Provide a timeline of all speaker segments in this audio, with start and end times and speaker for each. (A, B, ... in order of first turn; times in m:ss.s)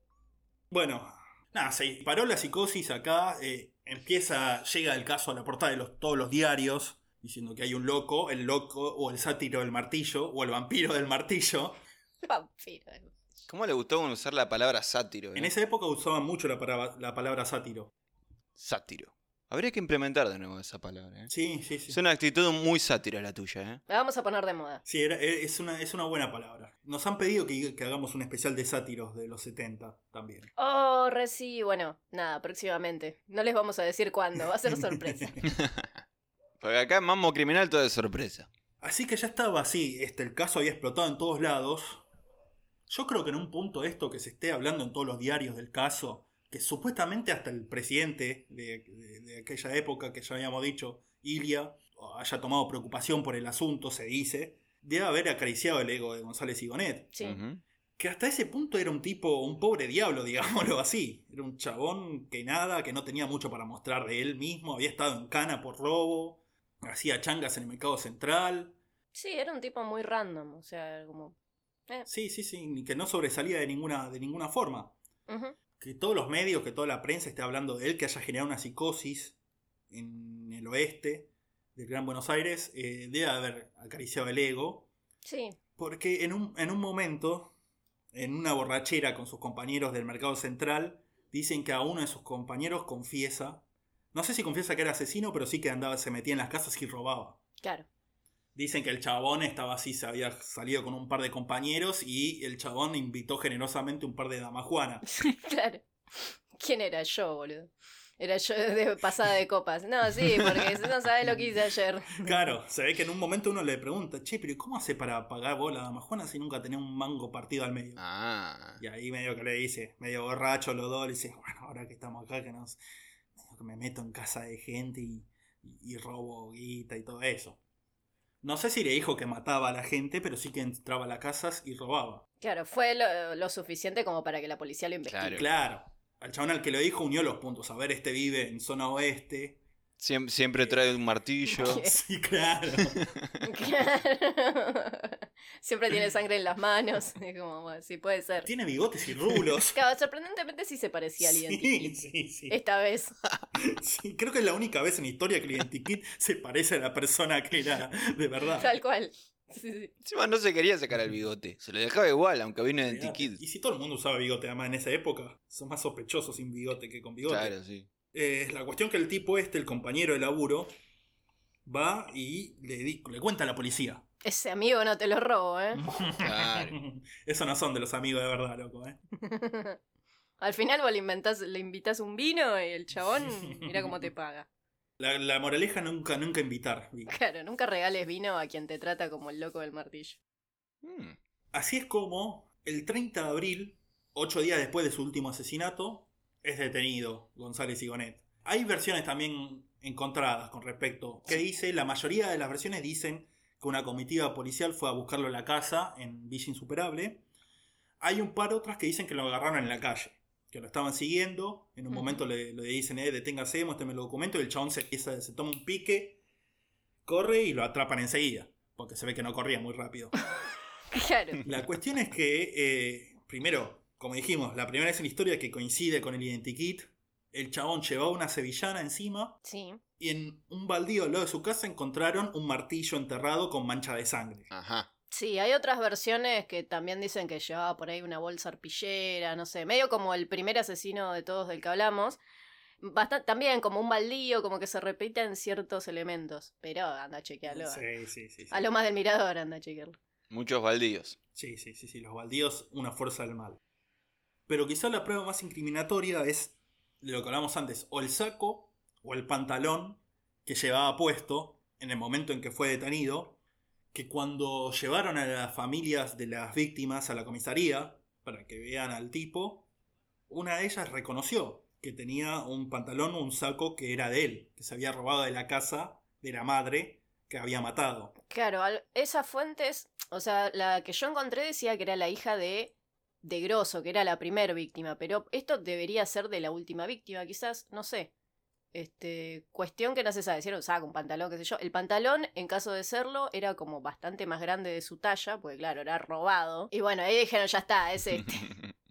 0:00.7-0:11.8 A
0:12.2-0:13.1 B
0:13.5-0:15.5 C
0:15.4-0:17.9 A
0:18.6-0:21.3 C
0:21.3-0:22.0 A
0:21.9-0:23.8 C
0:23.9-0:24.8 B
0:24.8-0:30.5 A
0:30.6-0:35.4 B
0:34.7-0:35.4 A
0:35.4-0:35.9 C
0:36.6-0:38.5 C
0:38.8-0:42.0 A
0:42.9-0:57.2 A
0:57.2-0:57.4 B
0:57.2-0:57.6 C
0:58.0-1:08.8 A
1:09.1-1:11.4 B
1:12.1-1:15.0 A
1:15.3-1:15.6 B
1:15.8-1:19.4 A
1:19.9-1:24.9 A
1:25.2-1:25.6 B
1:25.8-1:27.5 A
1:28.1-1:37.4 A
1:37.6-1:37.9 B
1:38.6-1:45.0 A
1:45.1-1:52.5 B
1:52.2-1:58.0 A
1:58.0-1:58.8 C
1:58.8-2:02.8 A
2:03.4-2:07.6 A
2:08.4-2:12.2 A
2:12.4-2:15.4 B
2:15.1-2:15.4 C
2:15.3-2:19.6 A
2:20.0-2:21.8 C
2:21.5-2:22.0 B
2:21.7-2:23.0 A
2:23.4-2:28.5 B
2:28.4-2:29.8 A
2:29.6-2:32.0 B
2:31.2-2:32.6 A
2:32.5-2:33.2 B
2:33.6-2:38.7 A
2:38.6-2:39.9 B
2:40.0-2:43.4 C
2:42.8-2:47.6 A
2:47.3-2:47.9 C
2:48.1-2:50.7 A
2:51.6-2:54.0 A
2:54.2-2:55.9 B
2:55.8-2:59.0 A
2:56.2-2:56.8 C
2:59.2-2:59.8 B
3:00.4-3:04.5 B
3:03.4-3:04.0 A
3:05.0-3:07.2 A
3:07.1-3:10.2 B
3:10.8-3:11.2 C
3:11.5-3:27.2 A
3:28.0-3:36.2 A
3:31.9-3:32.2 B
3:37.1-3:40.1 A
3:40.9-3:41.4 B
3:41.4-3:49.4 A
3:49.4-3:49.8 B
3:50.0-3:54.5 A
3:54.5-3:54.9 C
3:55.1-4:02.2 B
4:02.8-4:07.8 B
4:07.5-4:08.7 A
4:08.5-4:10.0 B
4:10.3-4:11.2 C
4:11.4-4:13.6 A
4:14.5-4:23.4 A
4:23.9-4:29.7 A
4:30.3-4:38.1 A
4:38.3-4:48.1 B
4:48.7-4:58.5 B
4:58.5-4:58.7 C